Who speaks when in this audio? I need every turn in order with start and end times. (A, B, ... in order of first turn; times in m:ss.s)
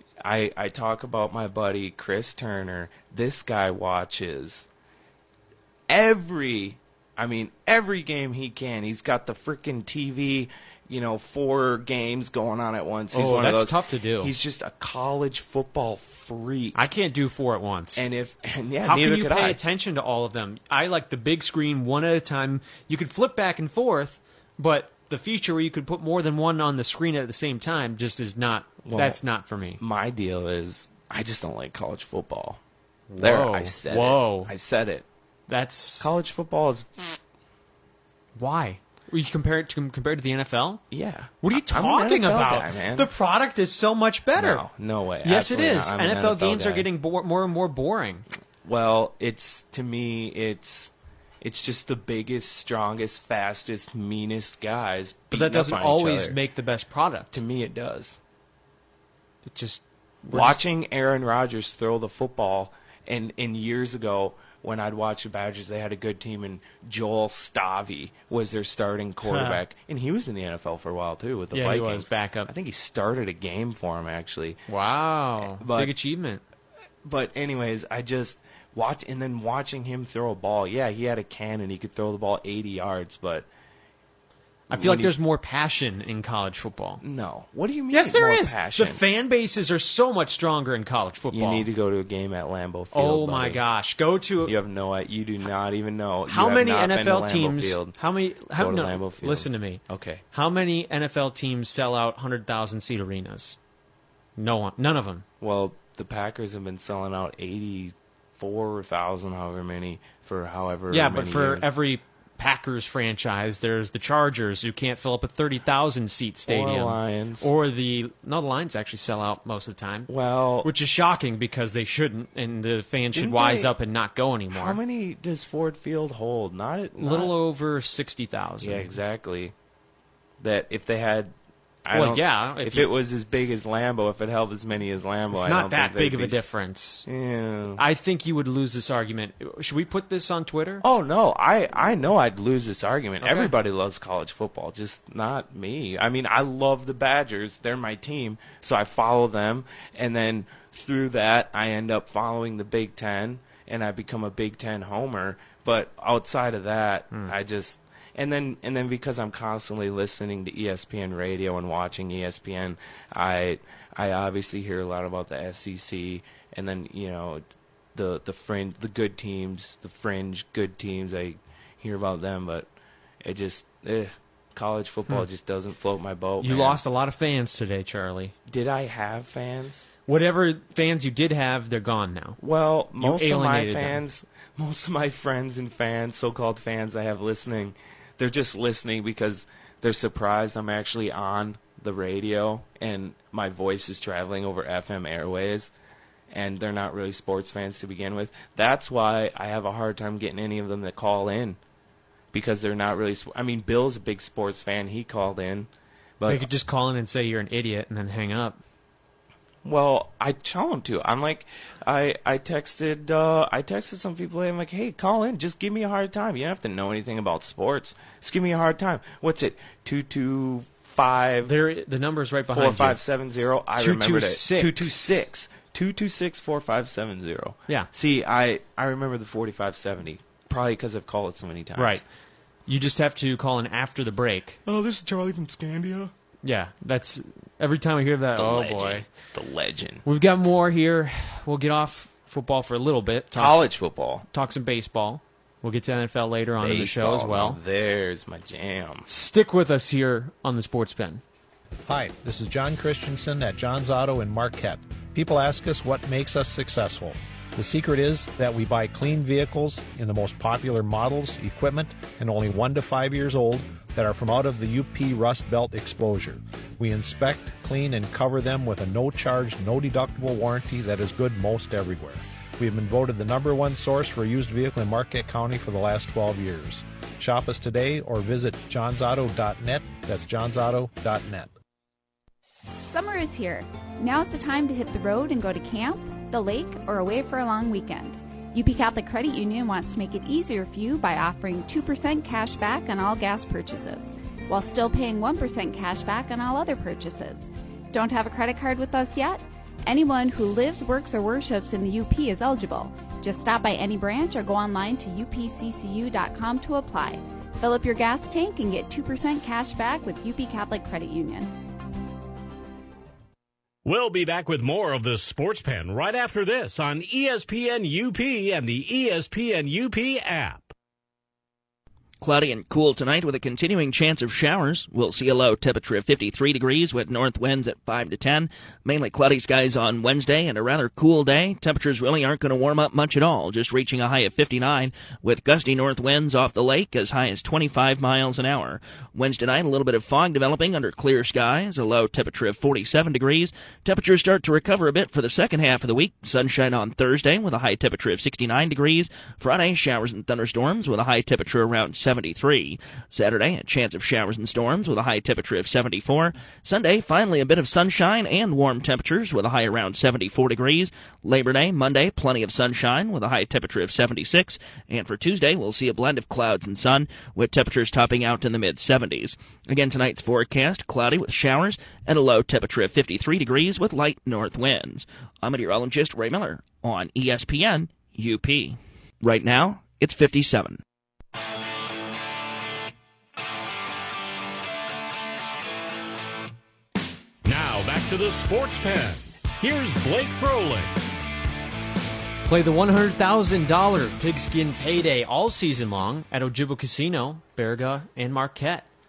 0:00.2-0:04.7 A
0:05.9-0:16.8 A
0:13.1-0:14.3 B
0:16.7-0:18.1 B
0:18.0-0:19.6 A
0:18.8-0:29.8 B
0:28.8-0:29.2 A
0:29.8-0:32.6 A
0:33.1-0:34.5 B
0:33.2-0:35.1 A
0:35.5-0:36.1 B
0:36.0-0:37.2 A
0:38.4-0:40.8 B
0:40.9-0:43.1 A
0:41.4-0:44.6 B
0:44.4-0:46.9 A
0:45.2-0:48.3 B
0:48.6-0:56.4 A
0:55.3-0:57.3 B
0:57.3-0:58.2 A
0:59.4-1:00.6 B
1:00.3-1:14.6 A
1:09.2-1:09.6 B
1:11.5-1:12.5 B
1:14.7-1:16.4 B
1:15.4-1:15.9 A
1:17.0-1:23.5 A
1:24.7-1:27.0 B
1:24.7-1:25.1 A
1:27.0-1:29.0 A
1:27.9-1:31.7 B
1:31.3-1:33.6 A
1:32.9-1:34.6 B
1:34.4-1:38.0 A
1:36.3-1:39.8 B
1:38.5-1:40.2 A
1:40.3-1:43.6 B
1:44.4-1:45.2 B
1:45.4-1:51.7 A
1:50.9-2:00.1 B
1:56.4-1:57.5 A
2:00.1-2:00.7 A
2:00.6-2:04.8 B
2:03.1-2:03.7 A
2:04.5-2:07.3 A
2:07.0-2:08.9 B
2:08.6-2:09.5 A
2:10.4-2:16.5 A
2:11.9-2:12.9 B
2:15.3-2:17.1 B
2:17.1-2:17.8 A
2:17.8-2:20.8 B
2:20.8-2:47.4 A
2:23.2-2:23.5 B
2:47.9-2:52.7 A
2:53.2-2:56.8 A
2:56.4-2:58.3 B
2:58.5-2:59.9 A
3:00.1-3:02.4 B
3:02.4-3:15.7 A
3:03.0-3:04.0 B
3:16.3-3:21.6 A
3:22.3-3:26.5 A
3:26.2-3:28.6 B
3:29.6-3:41.5 A
3:41.4-3:43.0 B
3:42.5-3:52.0 A
3:43.8-3:45.2 B
3:51.8-3:52.0 B
3:52.7-3:54.6 B
3:54.6-3:56.1 A
3:56.4-3:59.0 B
3:58.4-4:00.0 A
4:00.0-4:03.7 B
4:03.3-4:04.2 A
4:04.3-4:07.6 B
4:06.6-4:09.1 A
4:09.1-4:11.2 B
4:11.9-4:41.5 C
4:42.9-5:11.5 D
5:13.8-5:20.7 E
5:22.2-6:20.8 F
6:27.4-6:30.9 E
6:32.4-6:38.9 B